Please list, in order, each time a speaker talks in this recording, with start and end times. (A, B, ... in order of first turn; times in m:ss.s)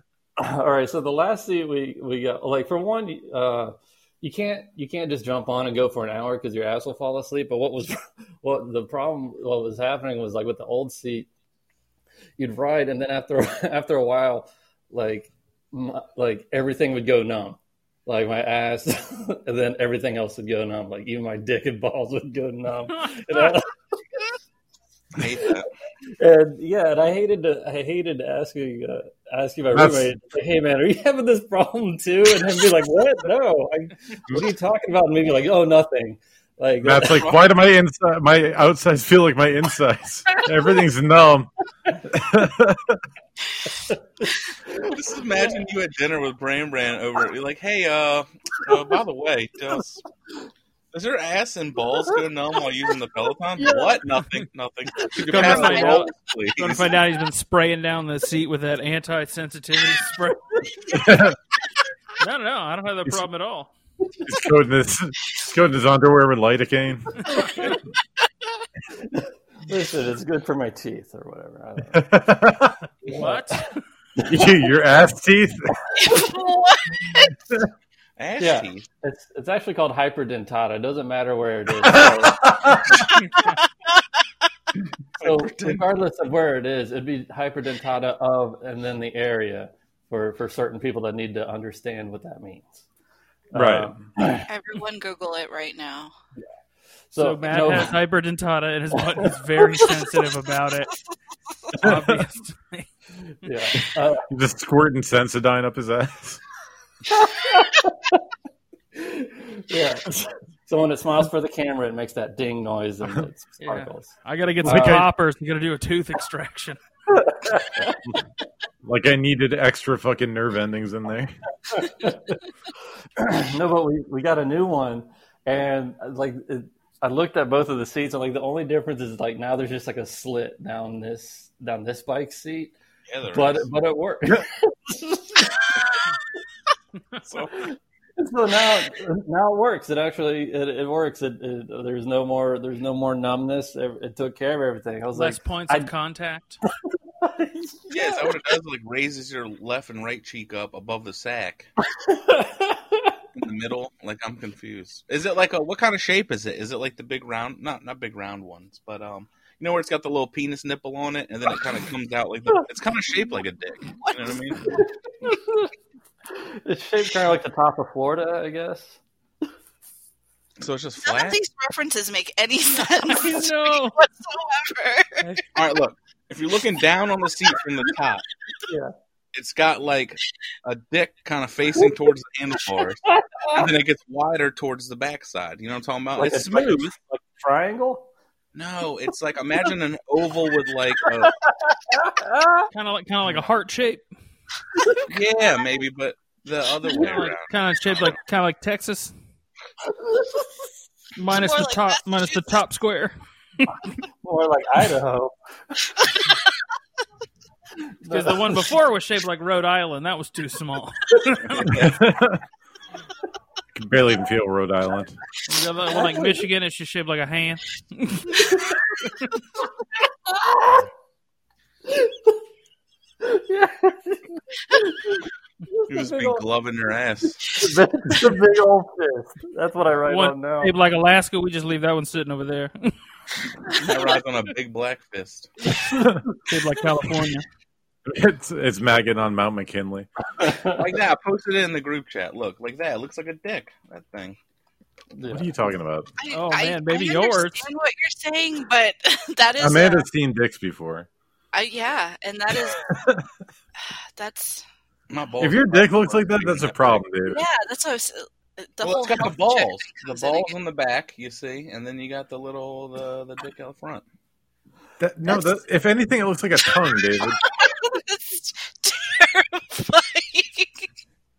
0:00.4-0:11.3 A
0:12.4-0:23.7 A
0:23.0-0:23.5 B
0:25.1-0:25.7 C
0:26.2-0:37.2 A
0:29.7-0:30.1 D
0:36.8-0:43.0 D
0:37.0-0:37.5 C
0:43.7-0:44.9 A
0:44.8-0:50.0 C
0:50.9-0:57.0 C
0:53.6-0:54.0 A
0:55.0-0:55.5 A
0:55.3-1:00.6 B
0:55.3-0:56.0 E
1:00.9-1:01.4 D
1:02.2-1:03.7 B
1:04.2-1:07.3 D
1:07.2-1:07.8 B
1:07.3-1:07.7 A
1:08.9-1:12.1 A
1:11.9-1:12.8 D
1:13.0-1:13.7 B
1:13.1-1:13.6 A
1:14.2-1:14.6 A
1:14.2-1:15.7 D
1:16.0-1:17.3 E
1:18.2-1:18.8 C
1:18.4-1:23.1 A
1:21.8-1:23.0 D
1:23.4-1:24.0 E
1:25.2-1:25.8 C
1:25.2-1:32.8 A
1:33.5-1:34.5 A
1:33.5-1:33.9 D
1:34.5-1:36.1 E
1:37.1-1:37.9 A
1:37.2-1:41.0 B
1:41.7-1:42.9 B
1:41.8-1:42.2 D
1:43.4-1:44.3 A
1:44.3-1:46.4 D
1:47.1-1:48.2 A
1:49.0-1:54.1 A
1:53.6-1:56.8 B
1:54.6-1:55.1 D
1:54.6-1:55.0 A
1:57.1-1:58.0 A
1:58.8-2:01.9 D
2:01.7-2:02.2 A
2:03.2-2:12.7 A
2:13.1-2:13.7 C
2:13.3-2:15.8 A
2:17.2-2:17.5 C
2:17.5-2:25.9 A
2:25.1-2:26.6 B
2:27.2-2:28.4 A
2:27.9-2:31.7 C
2:31.9-2:33.2 A
2:33.3-2:44.8 C
2:44.0-2:44.3 E
2:44.7-2:45.7 A
2:46.3-2:49.0 A
2:50.6-2:51.4 C
2:51.0-2:55.4 E
2:53.1-2:54.0 B
2:55.5-2:58.2 C
2:58.7-2:58.9 A
2:59.3-3:06.9 C
3:03.0-3:03.7 A
3:06.1-3:08.1 A
3:08.5-3:11.4 C
3:11.0-3:12.7 A
3:12.7-3:14.0 B
3:15.1-3:18.2 C
3:17.0-3:19.1 B
3:19.9-3:20.4 A
3:21.2-3:23.7 B
3:21.3-3:22.6 E
3:24.2-3:25.9 A
3:28.0-3:28.6 A
3:28.1-3:31.8 B
3:31.5-3:32.0 C
3:31.7-3:32.4 D
3:33.8-3:35.2 D
3:35.4-3:38.5 B
3:35.9-3:36.5 A
3:38.4-3:39.1 A
3:40.3-3:40.8 A
3:41.9-3:42.3 A
3:43.2-3:46.4 A
3:45.9-3:47.5 C
3:47.4-3:50.7 A
3:50.1-3:52.9 B
3:53.8-3:55.5 C
3:55.8-3:56.1 A
3:56.4-3:57.4 B
3:58.0-4:00.1 D
4:00.4-4:00.8 A
4:00.7-4:04.4 C
4:05.1-4:05.7 A
4:05.3-4:06.1 D
4:06.2-4:10.0 E
4:06.3-4:07.7 B
4:09.6-4:11.1 D
4:11.5-4:12.9 E
4:12.7-4:13.2 D
4:14.2-4:14.6 E
4:15.1-4:17.0 C
4:15.4-4:17.4 D
4:17.2-4:20.6 E
4:18.8-4:24.0 C
4:25.0-4:27.4 D
4:25.3-4:25.6 E
4:27.3-4:30.9 E